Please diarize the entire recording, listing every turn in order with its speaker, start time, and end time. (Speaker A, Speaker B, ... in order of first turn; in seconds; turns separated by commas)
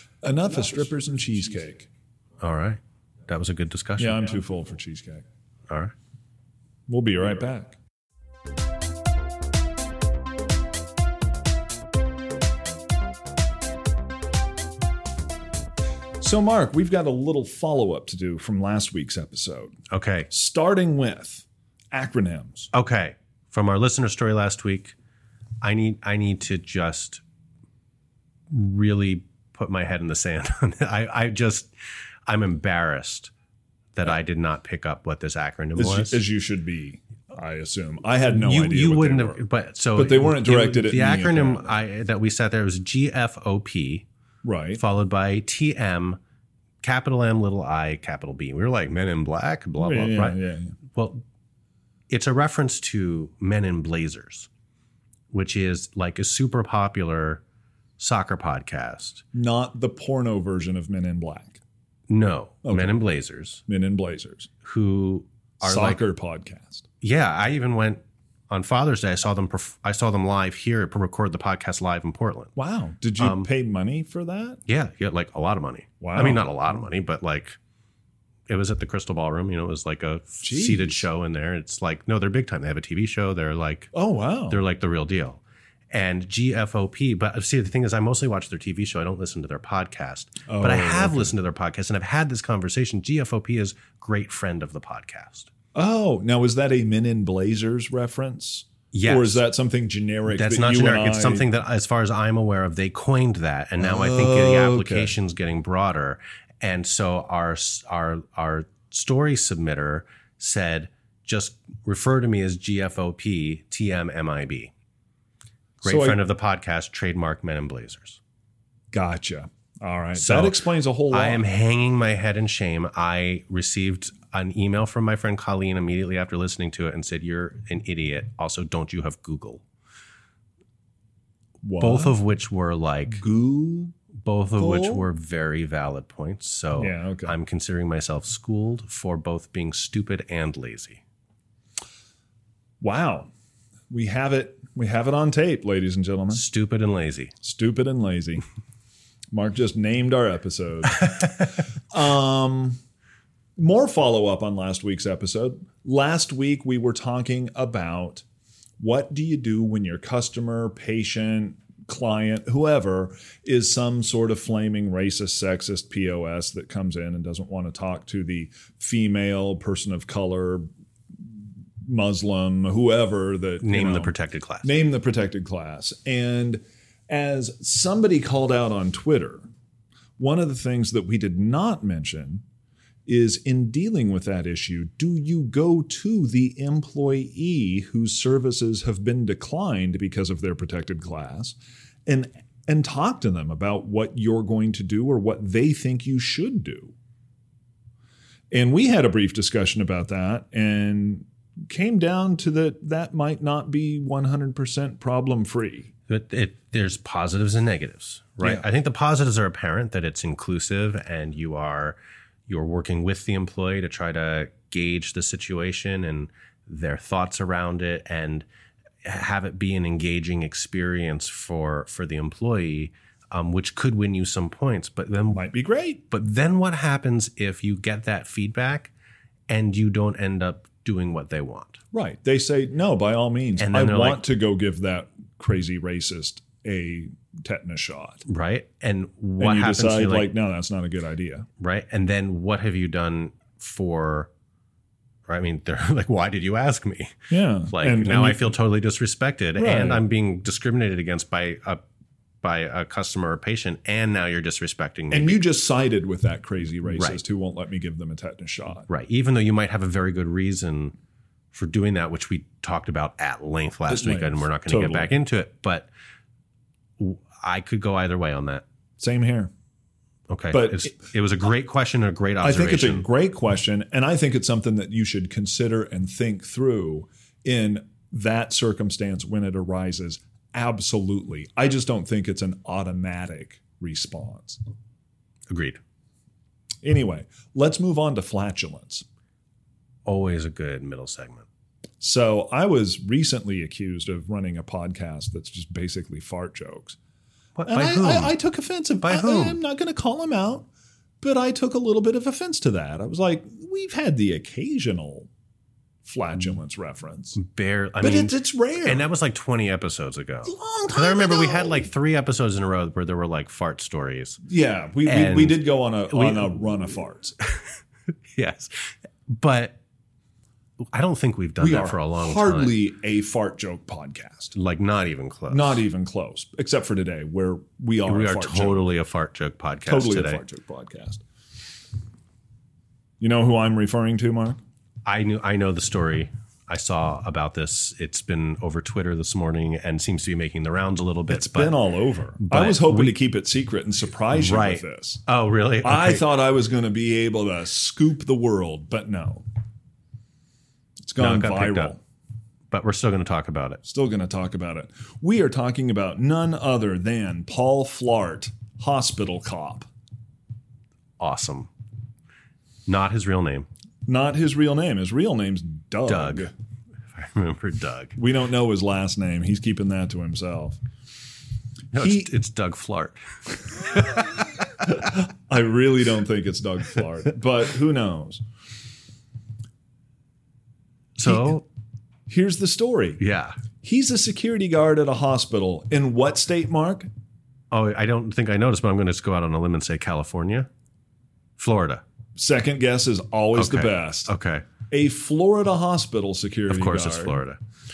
Speaker A: 0.2-1.9, Speaker B: 2.4-4.3, Speaker A: 4.0-5.2, Speaker B: 5.7-5.9, Speaker A: 6.9-7.8, Speaker A: 16.2-19.7, Speaker B: 19.9-20.3, Speaker A: 20.3-22.7, Speaker B: 22.7-24.9, Speaker B: 25.6-27.2, Speaker B: 28.5-31.7, Speaker B: 32.2-33.3, Speaker B: 33.9-36.2, Speaker A: 35.8-41.7, Speaker B: 38.4-44.0, Speaker A: 44.4-44.8, Speaker B: 44.7-46.2, Speaker B: 46.8-50.4, Speaker A: 49.8-50.7, Speaker B: 50.9-51.2, Speaker B: 52.1-54.5, Speaker B: 55.3-57.4, Speaker B: 58.0-59.2, Speaker A: 59.3-61.6, Speaker B: 62.1-63.6, Speaker A: 62.6-63.0, Speaker A: 63.6-64.5, Speaker B: 64.6-66.0, Speaker A: 65.6-66.9, Speaker B: 67.0-72.5, Speaker A: 72.5-74.6, Speaker B: 73.2-73.5, Speaker B: 74.7-77.6, Speaker A: 76.0-76.5, Speaker B: 78.5-83.9, Speaker A: 80.4-81.0, Speaker A: 83.9-84.6, Speaker B: 84.5-95.5, Speaker A: 90.5-91.3, Speaker A: 95.7-101.5, Speaker B: 98.9-99.4, Speaker B: 100.3-114.7, Speaker A: 103.8-105.1, Speaker B: 115.8-118.2, Speaker A: 115.8-116.2, Speaker A: 118.9-121.4, Speaker B: 120.1-129.6, Speaker A: 131.6-132.2, Speaker B: 131.8-133.2, Speaker A: 133.1-133.9, Speaker B: 134.1-141.0, Speaker A: 134.6-135.1, Speaker A: 136.8-137.3, Speaker A: 142.8-143.3, Speaker A: 143.9-146.4, Speaker B: 146.3-147.3, Speaker A: 147.4-148.4, Speaker A: 149.3-152.8, Speaker A: 153.6-158.2, Speaker A: 158.8-170.7, Speaker A: 171.8-179.5, Speaker B: 173.6-174.8, Speaker A: 180.2-182.4, Speaker A: 183.1-196.9, Speaker A: 198.5-205.9, Speaker B: 206.1-218.4, Speaker B: 219.0-225.4, Speaker A: 225.3-226.1, Speaker B: 226.1-228.9, Speaker B: 229.5-231.8, Speaker A: 231.9-238.2, Speaker B: 233.6-234.2, Speaker B: 238.3-240.3, Speaker A: 239.4-241.5, Speaker B: 241.6-244.3, Speaker B: 245.3-251.8, Speaker A: 247.3-248.5, Speaker A: 249.6-250.0, Speaker B: 252.4-255.4, Speaker A: 255.1-258.9, Speaker B: 256.9-257.2, Speaker B: 258.9-260.9, Speaker B: 261.5-265.9, Speaker A: 263.9-265.1, Speaker B: 267.0-268.6, Speaker A: 269.0-269.5, Speaker B: 270.3-273.1, Speaker A: 270.5-271.0, Speaker A: 272.4-284.6, Speaker B: 285.5-285.8, Speaker A: 286.8-289.0, Speaker B: 290.0-291.4, Speaker A: 292.0-297.0, Speaker B: 297.6-298.3, Speaker A: 297.6-300.7, Speaker B: 299.0-299.6, Speaker A: 301.2-305.3, Speaker A: 306.0-307.4, Speaker B: 307.3-314.4, Speaker A: 308.0-309.1, Speaker A: 310.4-311.9, Speaker A: 314.4-317.4, Speaker B: 315.0-316.6, Speaker B: 317.4-317.8, Speaker B: 318.3-319.8, Speaker B: 320.8-322.7, Speaker A: 321.6-324.5, Speaker B: 324.5-325.8, Speaker A: 325.5-328.9, Speaker B: 328.0-330.4, Speaker A: 329.9-331.2, Speaker A: 333.2-334.6, Speaker B: 335.0-341.8, Speaker A: 341.3-345.2, Speaker B: 342.4-343.2, Speaker B: 344.3-346.3, Speaker A: 345.8-349.4, Speaker A: 351.0-352.0, Speaker B: 351.2-351.9, Speaker B: 352.7-353.8, Speaker A: 353.8-359.9, Speaker B: 361.2-361.7, Speaker B: 362.9-363.7, Speaker A: 364.1-366.5, Speaker B: 366.1-366.5, Speaker B: 367.1-368.2, Speaker A: 368.1-370.8, Speaker B: 371.9-373.2, Speaker A: 371.9-372.3, Speaker B: 373.8-374.3, Speaker A: 374.8-378.4, Speaker B: 381.1-381.6, Speaker A: 381.2-381.6, Speaker A: 382.3-383.2, Speaker B: 383.2-383.6, Speaker A: 383.8-387.1, Speaker B: 387.7-390.7, Speaker B: 391.6-392.0, Speaker A: 392.4-394.3, Speaker B: 393.5-394.7, Speaker A: 394.9-397.4, Speaker B: 396.7-397.6